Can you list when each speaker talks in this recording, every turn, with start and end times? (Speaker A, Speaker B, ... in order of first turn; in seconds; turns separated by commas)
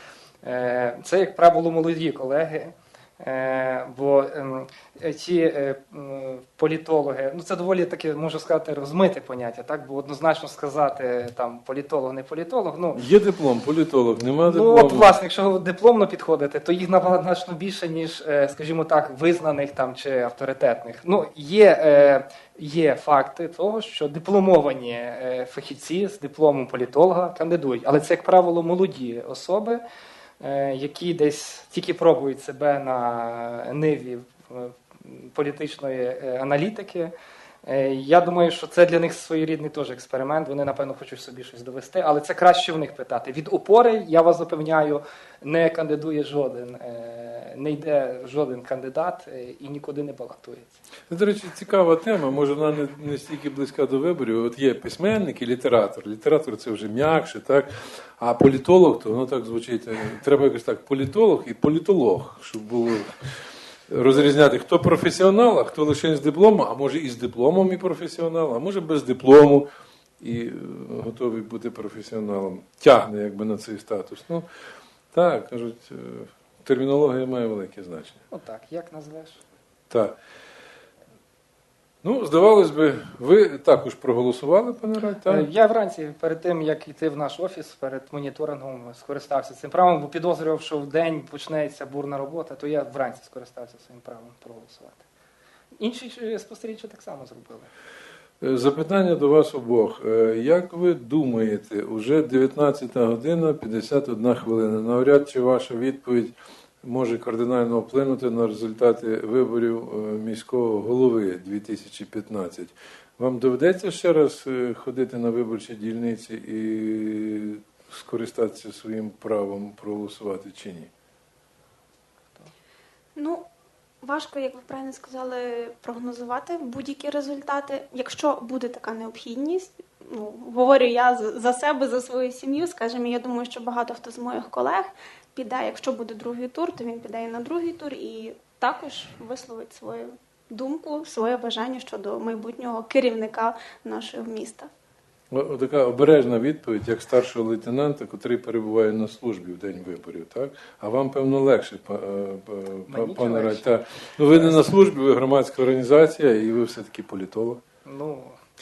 Speaker A: 0.4-13.0, Speaker B: 12.9-15.1, Speaker A: 14.4-29.8, Speaker A: 30.4-37.1, Speaker A: 37.6-50.8, Speaker B: 51.1-63.2, Speaker B: 63.9-69.7, Speaker B: 70.2-74.5, Speaker B: 75.1-78.2, Speaker A: 78.3-79.4, Speaker B: 79.9-80.2, Speaker B: 82.0-85.5, Speaker A: 85.2-95.0, Speaker A: 95.8-97.7, Speaker B: 98.4-120.9, Speaker C: 123.2-123.4, Speaker C: 124.0-144.7, Speaker B: 145.3-157.6, Speaker A: 152.9-154.7, Speaker A: 157.8-158.4